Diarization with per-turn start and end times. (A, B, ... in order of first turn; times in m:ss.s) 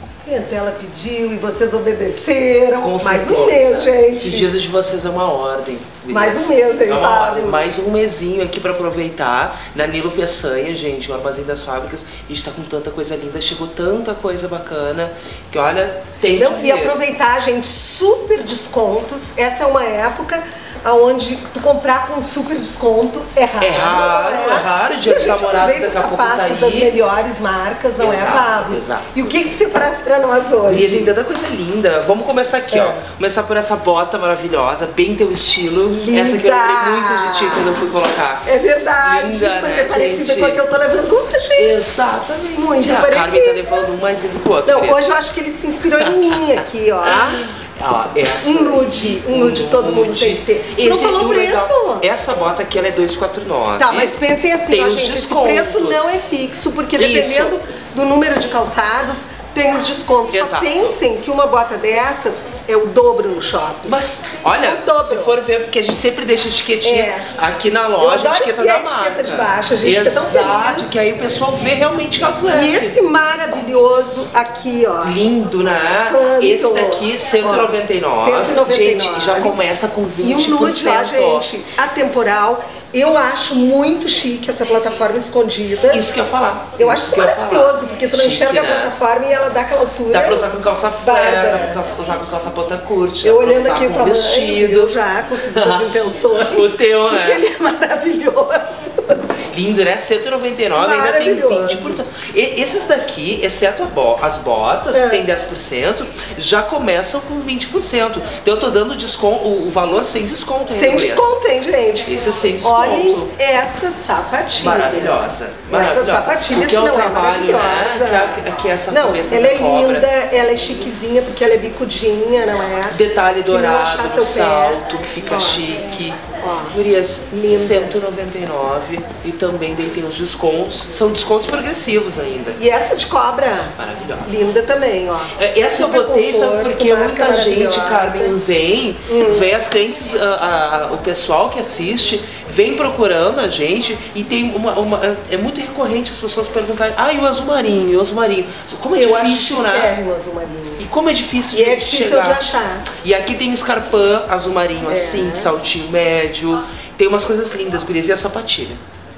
0:00.2-0:04.5 A
0:02.8-0:17.0 B
0:06.1-0:07.7 A
0:16.3-0:31.1 A
0:23.6-0:26.9 B
0:28.0-0:29.5 B
0:30.6-0:38.5 B
0:32.7-0:33.0 A
0:35.9-0:37.9 A
0:38.4-0:41.8 A
0:39.0-0:40.6 B
0:41.6-0:45.1 B
0:42.6-0:43.9 A
0:44.6-0:47.4 A
0:46.0-0:54.2 B
0:48.4-0:52.1 A
0:53.8-1:04.0 A
0:54.7-0:56.2 B
0:57.0-0:57.6 B
1:00.3-1:01.0 B
1:03.8-1:13.0 B
1:04.6-1:05.4 A
1:06.8-1:07.3 A
1:08.0-1:10.9 A
1:12.5-1:15.2 A
1:15.0-1:21.5 B
1:16.1-1:19.6 A
1:20.2-1:26.1 A
1:25.9-1:29.0 B
1:26.8-1:31.8 A
1:30.1-1:34.9 B
1:33.2-1:39.3 A
1:35.5-1:37.4 B
1:39.5-1:51.4 B
1:40.8-1:42.0 A
1:44.9-1:45.3 A
1:50.7-2:03.0 A
1:52.1-1:53.3 B
1:54.6-2:00.1 B
2:02.9-2:12.6 B
2:03.5-2:05.6 A
2:06.4-2:06.8 A
2:07.3-2:08.0 A
2:12.6-2:18.4 A
2:13.8-2:14.3 B
2:15.4-2:30.0 B
2:19.1-2:19.5 A
2:28.9-2:30.8 A
2:30.8-2:38.8 B
2:31.5-2:32.9 A
2:34.9-2:35.5 A